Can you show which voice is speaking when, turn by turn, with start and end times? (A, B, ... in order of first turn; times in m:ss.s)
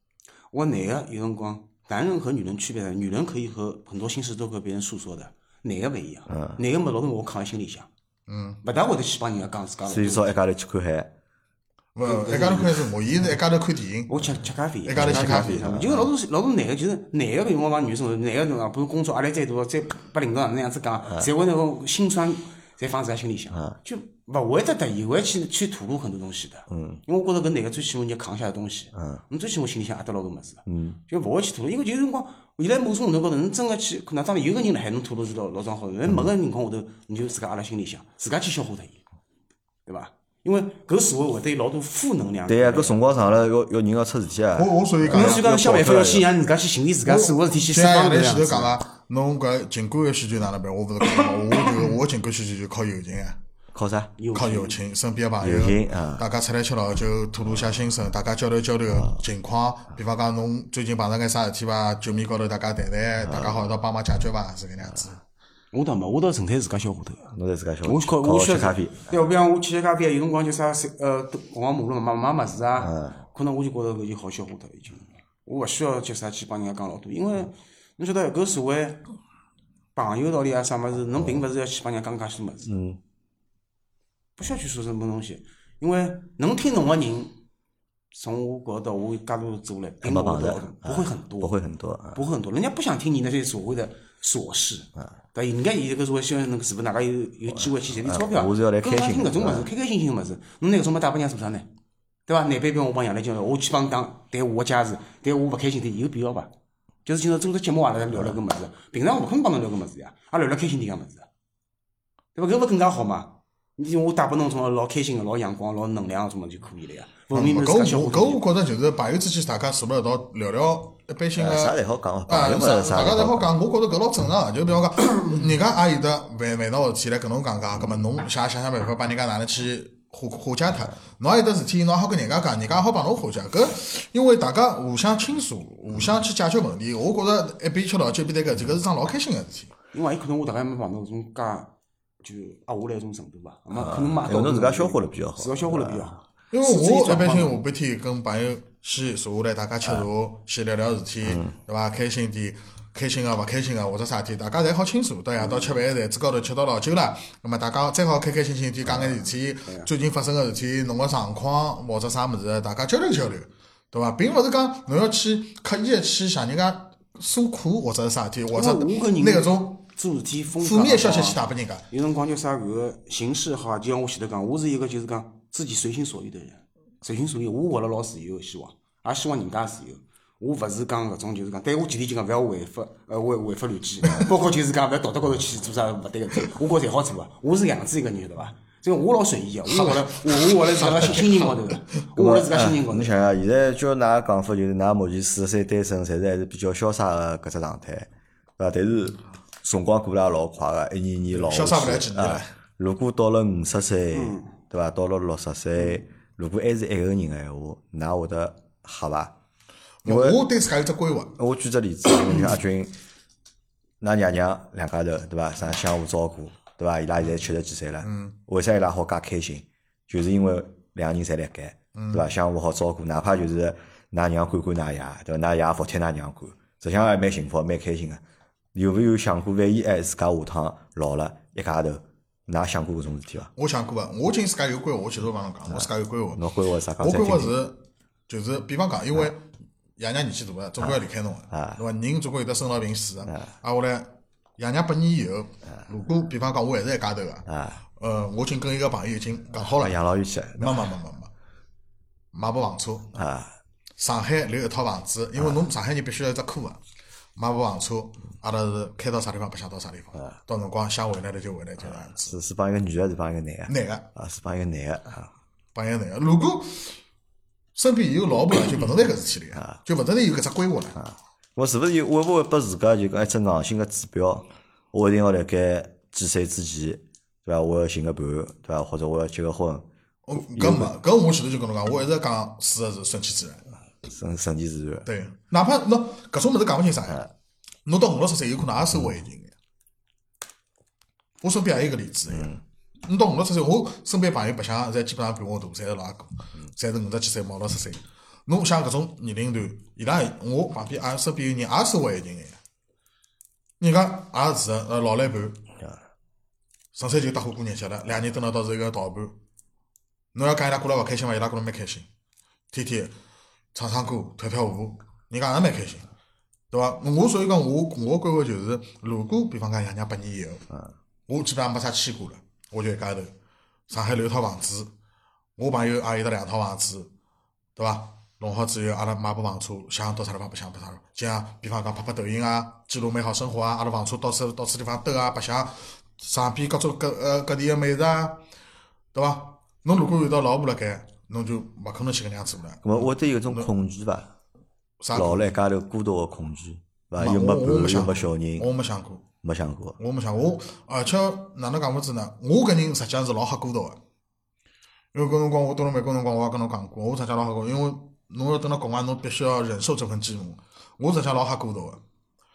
0:00.5-0:07.9 A
0:06.3-0:06.6 B
0:08.3-0:08.6 C
0:08.6-0:10.4 A
0:09.9-0:11.1 B
0:12.0-0:14.1 C
0:12.0-0:12.8 A
0:14.1-0:39.0 A
0:14.9-0:15.7 C
0:15.0-0:16.1 B
0:26.7-0:27.0 B
0:29.0-0:29.2 B
0:30.7-0:31.0 B
0:39.9-0:43.0 A
0:42.5-0:46.3 B
0:44.6-0:45.4 C
0:45.1-0:48.8 A
0:47.1-0:53.4 C
0:53.7-0:54.1 B
0:54.2-0:54.8 A
0:54.3-1:05.2 C
0:55.4-0:56.3 B
1:03.2-1:03.6 B
1:05.7-1:07.3 A
1:07.3-1:09.0 B
1:07.8-1:19.1 A
1:12.8-1:13.2 B
1:20.0-1:22.7 A
1:22.6-1:23.0 B
1:24.4-1:27.4 A
1:28.1-1:31.5 A
1:30.0-1:32.2 B
1:32.1-1:41.7 A
1:38.0-1:39.7 B
1:42.3-1:46.5 A
1:47.0-1:51.3 A
1:52.4-1:58.5 A
1:57.3-2:19.7 C
2:01.4-2:03.5 B
2:19.9-2:27.6 A
2:23.8-2:26.1 B
2:26.5-2:49.8 C
2:31.2-2:31.5 B
2:48.5-2:51.4 A
2:50.6-2:51.8 C
2:51.9-3:13.2 A
3:09.7-3:11.6 C
3:12.2-3:29.3 B
3:21.3-3:22.5 C
3:24.1-3:24.5 A
3:30.0-3:31.4 C
3:30.1-3:30.4 B
3:31.4-3:32.9 B
3:34.0-3:48.2 B
3:38.0-3:38.4 C
3:42.0-3:42.3 C
3:48.7-3:53.5 B
3:53.6-3:56.4 C
3:55.7-3:57.6 B
3:57.0-3:59.5 C
4:00.0-4:07.5 C
4:00.8-4:01.8 B
4:07.5-4:07.8 B
4:08.0-4:10.0 C
4:09.6-4:10.9 B
4:10.6-4:11.3 C
4:12.3-4:13.1 C
4:13.1-4:13.6 B
4:14.0-4:16.8 C
4:17.4-4:22.4 C
4:21.8-4:25.3 B
4:23.7-4:24.1 C
4:25.7-4:27.0 C
4:27.8-4:31.0 C
4:31.0-4:39.9 B
4:40.3-4:43.6 C
4:40.6-4:40.9 B
4:44.0-4:45.1 B
4:45.1-4:47.2 C
4:47.9-4:49.5 C
4:51.4-4:52.6 C
4:53.1-5:02.6 C
5:03.8-5:05.6 C
5:07.0-5:09.4 C
5:10.3-5:12.1 C
5:12.7-5:13.1 C
5:13.7-5:16.1 C
5:16.7-5:20.7 C
5:21.3-5:23.3 C
5:23.9-5:24.9 C
5:25.6-5:27.1 C
5:27.8-5:38.4 C
5:39.1-5:43.7 C
5:42.8-5:44.3 B
5:45.0-5:45.5 C
5:45.1-5:48.7 B
5:47.2-5:49.3 C
5:49.4-5:50.0 B
5:50.0-5:54.0 C
5:55.1-6:02.0 C